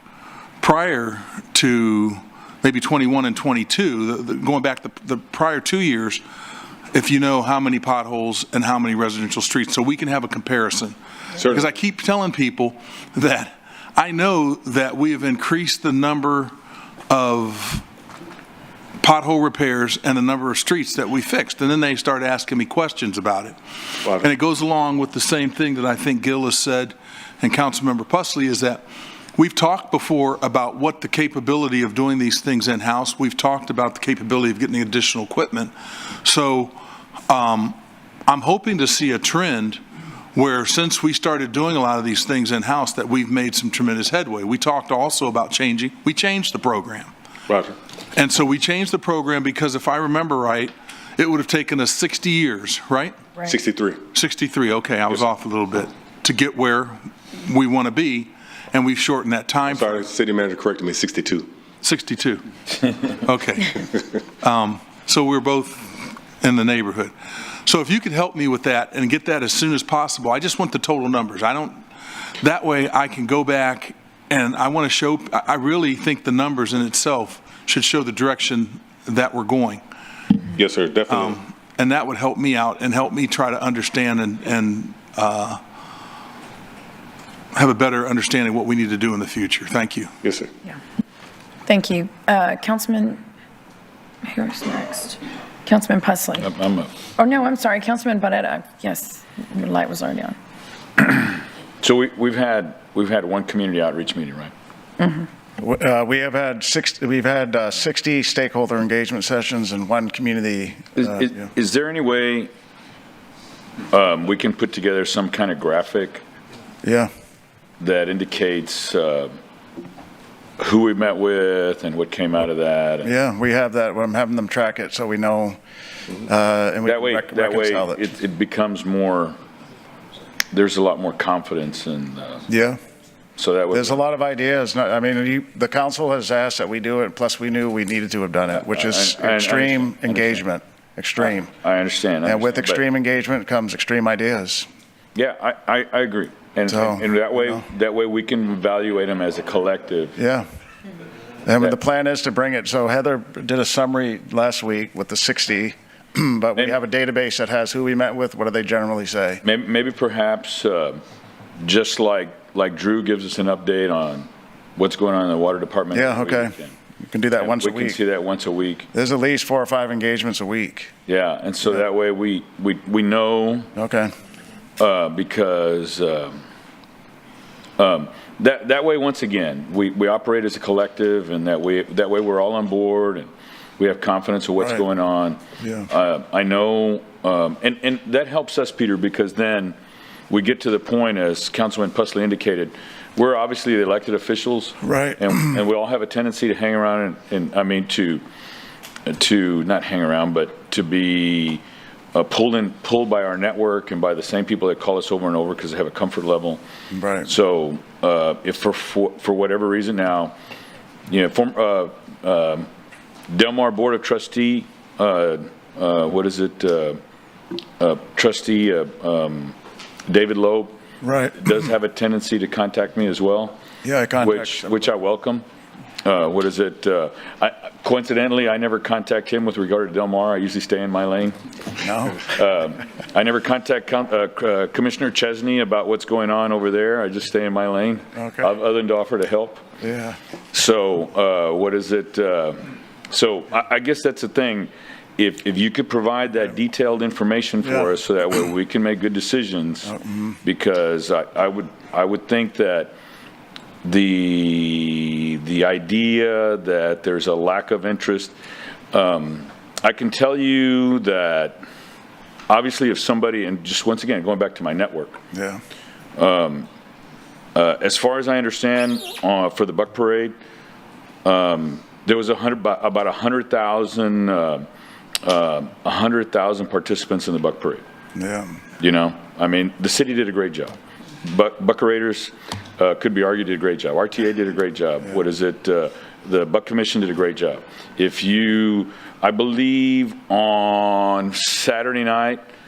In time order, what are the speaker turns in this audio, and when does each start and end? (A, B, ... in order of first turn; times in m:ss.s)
0:00.6-0:06.2 A
0:06.9-0:16.5 A
0:17.1-0:17.8 A
0:19.0-0:28.8 A
0:29.4-0:35.7 A
0:36.2-0:36.7 A
0:37.3-0:39.8 A
0:40.3-0:47.1 A
0:47.5-0:47.8 B
0:48.1-0:53.2 A
0:53.4-0:54.0 B
0:54.1-0:59.9 A
0:59.7-1:01.5 B
1:01.8-1:02.4 A
1:03.1-1:03.9 A
1:04.4-1:07.1 A
1:07.6-1:11.8 A
1:12.4-1:19.8 A
1:20.5-1:21.4 B
1:21.1-1:25.6 A
1:27.5-1:30.1 A
1:30.2-1:30.5 B
1:31.6-1:33.2 C
1:34.2-1:36.5 C
1:36.4-1:37.0 D
1:37.2-1:40.4 C
1:41.0-1:44.5 D
1:45.0-1:45.3 C
1:45.6-1:51.4 E
1:51.0-1:52.5 D
1:53.9-1:56.2 D
1:56.8-1:57.1 E
1:57.8-1:59.3 D
2:00.6-2:03.1 D
2:03.0-2:05.6 E
2:06.1-2:08.0 E
2:06.8-2:09.4 D
2:10.5-2:12.4 D
2:12.5-2:12.8 E
2:13.4-2:14.0 D
2:13.7-2:21.5 E
2:18.5-2:20.4 D
2:21.2-2:22.8 D
2:22.2-2:24.7 E
2:25.1-2:30.2 D
2:26.7-2:27.6 E
2:30.2-2:30.4 E
2:31.4-2:39.4 E
2:39.4-2:41.0 D
2:41.6-2:46.7 D
2:45.9-2:48.0 E
2:47.4-2:48.9 D
2:48.9-2:50.9 E
2:51.1-2:53.7 D
2:53.8-2:54.1 E
2:54.8-2:56.4 D
2:57.8-3:09.8 D
3:05.6-3:05.9 E
3:10.3-3:18.2 D
3:14.8-3:15.6 E
3:19.0-3:21.6 D
3:22.1-3:26.6 D
3:26.9-3:27.3 E
3:27.2-3:30.3 D
3:31.1-3:32.7 D
3:33.3-3:37.0 D
3:37.8-3:39.5 D
3:40.1-3:40.8 D
3:41.0-3:41.6 E
3:41.4-3:43.6 D
3:43.8-3:44.7 E
3:44.2-3:45.4 D
3:46.0-3:51.4 D
3:51.8-3:52.3 E
3:52.2-3:59.6 D
3:58.1-3:58.5 E
3:59.8-4:00.2 E
4:00.5-4:09.9 D
4:07.6-4:07.9 E
4:09.8-4:10.4 E
4:10.4-4:12.9 D
4:13.8-4:18.3 D
4:18.9-4:21.6 D
4:22.5-4:25.2 D
4:25.3-4:25.6 E
4:26.2-4:26.7 D
4:27.5-4:30.3 D
4:31.2-4:34.7 D
4:35.2-4:37.8 D
4:38.1-4:38.6 E
4:38.8-4:52.4 D